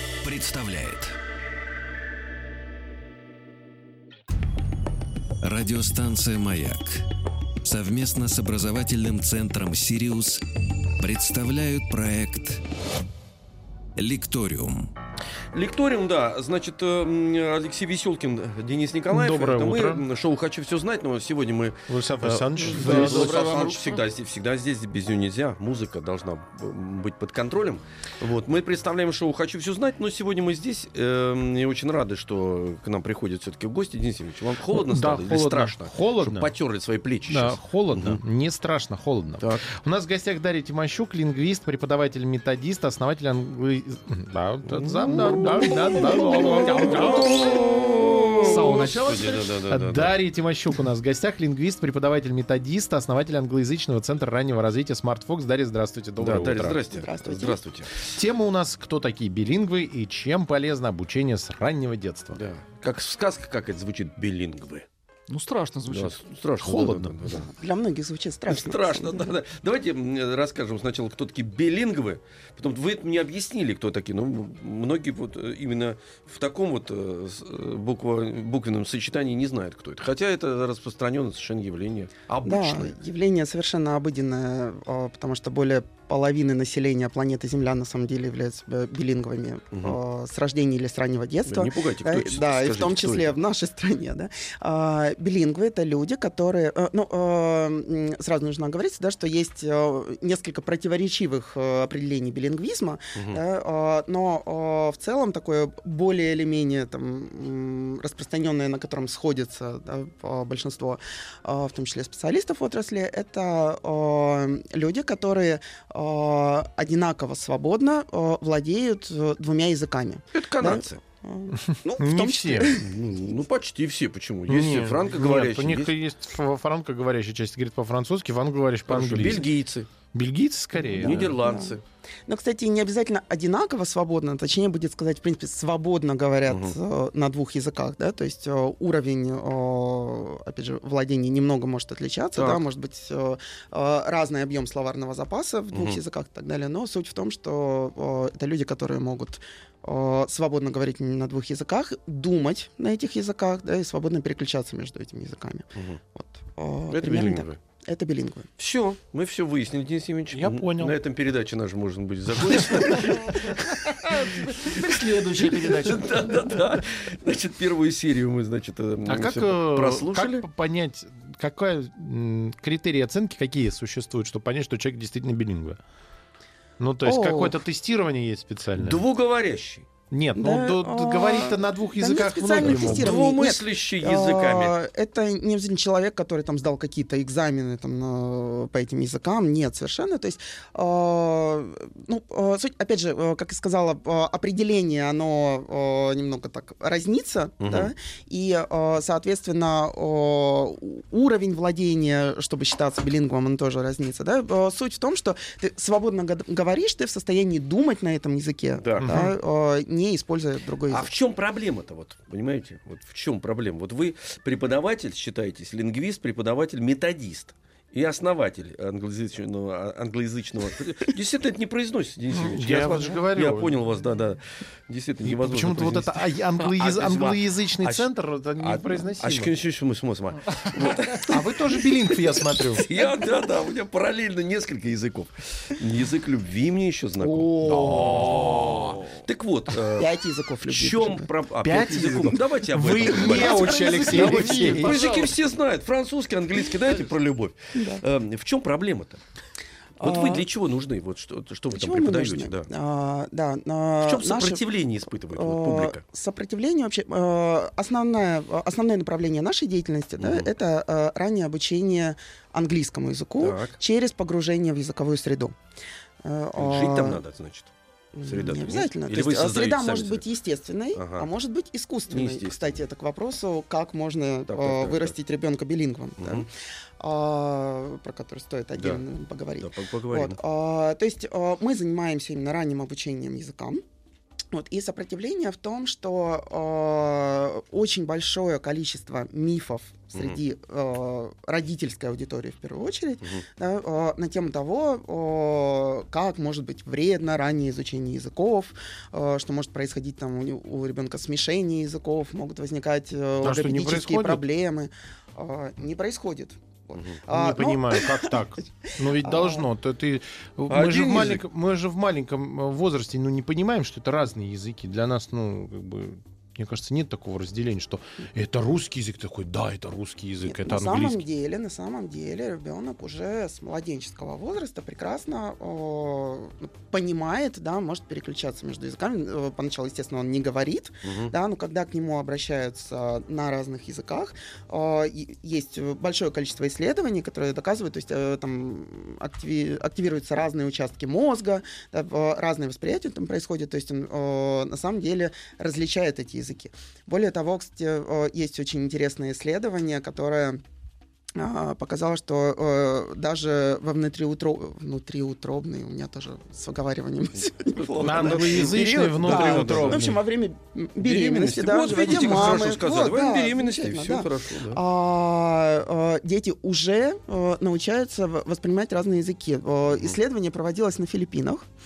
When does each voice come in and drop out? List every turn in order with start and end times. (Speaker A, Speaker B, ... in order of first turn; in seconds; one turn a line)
Speaker A: 0.2-1.1
Speaker A: 5.4-7.0
Speaker A: 7.6-10.4
Speaker A: 11.0-12.6
Speaker A: 14.0-14.9
Speaker B: 15.5-38.2
Speaker C: 19.1-20.1
Speaker C: 21.9-23.6
Speaker D: 22.6-24.0
Speaker C: 34.7-36.5
Speaker C: 37.3-47.5
Speaker B: 39.4-39.6
Speaker B: 44.7-50.1
Speaker D: 48.4-49.6
Speaker C: 49.7-56.8
Speaker B: 56.2-58.1
Speaker E: 56.9-57.6
Speaker C: 58.1-62.4
Speaker B: 62.3-64.9
Speaker D: 65.3-66.2
Speaker B: 65.9-67.5
Speaker C: 66.6-67.3
Speaker E: 67.3-69.4
Speaker B: 68.5-82.9
Speaker E: 82.4-122.9
Speaker B: 91.5-93.3
Speaker B: 103.2-103.4
Speaker B: 120.3-121.0
Speaker C: 121.7-122.7
Speaker B: 122.8-125.9
Speaker C: 124.5-129.5
Speaker B: 128.9-129.9
Speaker C: 130.1-131.4
Speaker E: 130.8-131.8
Speaker B: 131.0-131.8
Speaker E: 132.3-158.5
Speaker B: 136.5-136.8
Speaker B: 142.4-142.6
Speaker B: 145.7-146.0
Speaker B: 155.8-156.0
Speaker B: 156.9-157.6
Speaker B: 158.6-170.4
Speaker C: 160.3-161.0
Speaker C: 162.5-163.1
Speaker C: 164.4-166.6
Speaker C: 169.1-175.8
Speaker C: 176.8-179.0
Speaker E: 177.0-177.6
Speaker B: 178.8-179.9
Speaker C: 180.1-183.2
Speaker E: 180.4-211.1
Speaker B: 182.6-184.8
Speaker B: 197.6-197.9
Speaker B: 208.8-209.3
Speaker C: 209.0-209.3
Speaker B: 210.9-232.2
Speaker C: 222.3-223.8
Speaker C: 225.2-229.5
Speaker D: 230.7-231.2
Speaker C: 231.2-232.9
Speaker B: 232.7-240.1
Speaker D: 237.2-239.0
Speaker C: 237.6-238.5
Speaker E: 240.0-241.3
Speaker B: 240.7-249.2
Speaker C: 241.6-245.0
Speaker D: 243.2-245.4
Speaker E: 247.8-248.0
Speaker B: 250.0-252.7
Speaker E: 250.0-250.4
Speaker E: 251.7-254.6
Speaker B: 254.0-256.0
Speaker E: 255.3-265.6
Speaker B: 260.2-260.5
Speaker B: 263.4-263.8
Speaker E: 266.2-267.2
Speaker B: 266.6-267.7
Speaker E: 268.1-276.5
Speaker B: 268.3-270.2
Speaker B: 270.9-271.3
Speaker B: 272.1-272.8
Speaker B: 274.5-275.1
Speaker B: 276.2-276.5
Speaker E: 277.0-283.8
Speaker B: 279.6-280.4
Speaker E: 284.5-308.4
Speaker C: 303.4-304.4
Speaker C: 307.3-321.2
Speaker E: 308.9-309.7
Speaker B: 310.7-311.4
Speaker E: 320.5-350.6
Speaker B: 331.0-331.3
Speaker E: 351.4-371.7
Speaker B: 357.7-360.0
Speaker C: 358.0-360.2
Speaker B: 361.0-364.8